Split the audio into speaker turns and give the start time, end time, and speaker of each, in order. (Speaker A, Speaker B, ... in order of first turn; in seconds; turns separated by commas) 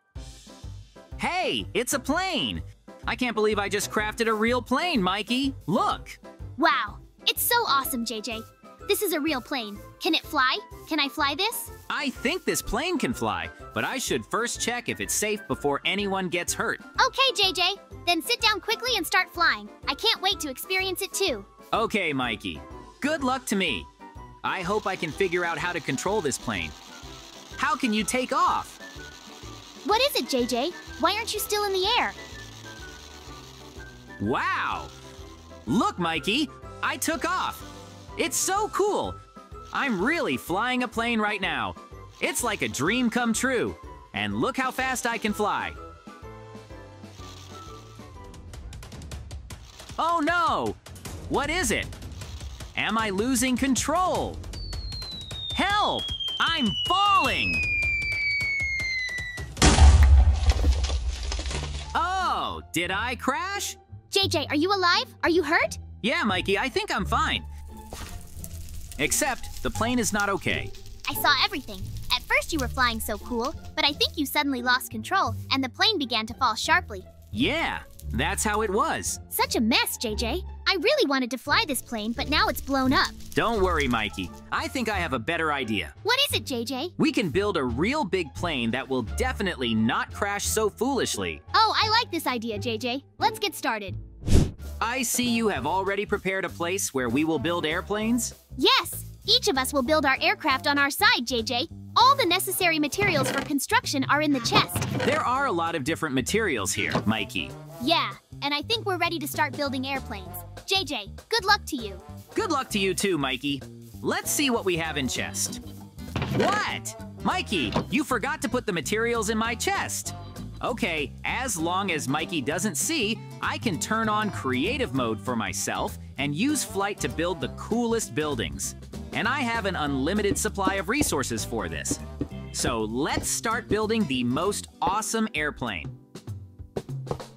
Speaker A: 1.2-6.2, Speaker B: 6.6-11.7, Speaker A: 11.9-16.8, Speaker B: 17.0-21.5, Speaker A: 21.7-23.9, Speaker A: 24.4-26.8, Speaker A: 27.6-28.8, Speaker B: 29.8-32.2, Speaker A: 34.2-34.9, Speaker A: 35.6-39.2, Speaker A: 39.7-45.8, Speaker A: 50.0-51.9, Speaker A: 52.8-54.4, Speaker A: 55.5-57.6, Speaker A: 61.9-63.8, Speaker B: 64.1-65.8, Speaker A: 66.0-67.5, Speaker A: 69.0-70.7, Speaker B: 71.1-77.1, Speaker A: 77.3-79.2, Speaker B: 79.3-83.2, Speaker A: 83.3-85.9, Speaker B: 86.0-86.9, Speaker A: 87.0-91.4, Speaker B: 91.5-94.0, Speaker A: 94.8-98.3, Speaker B: 98.6-104.9, Speaker A: 105.0-107.5, Speaker B: 107.8-112.0, Speaker A: 112.3-115.6, Speaker A: 116.3-132.0, Speaker A: 132.5-135.9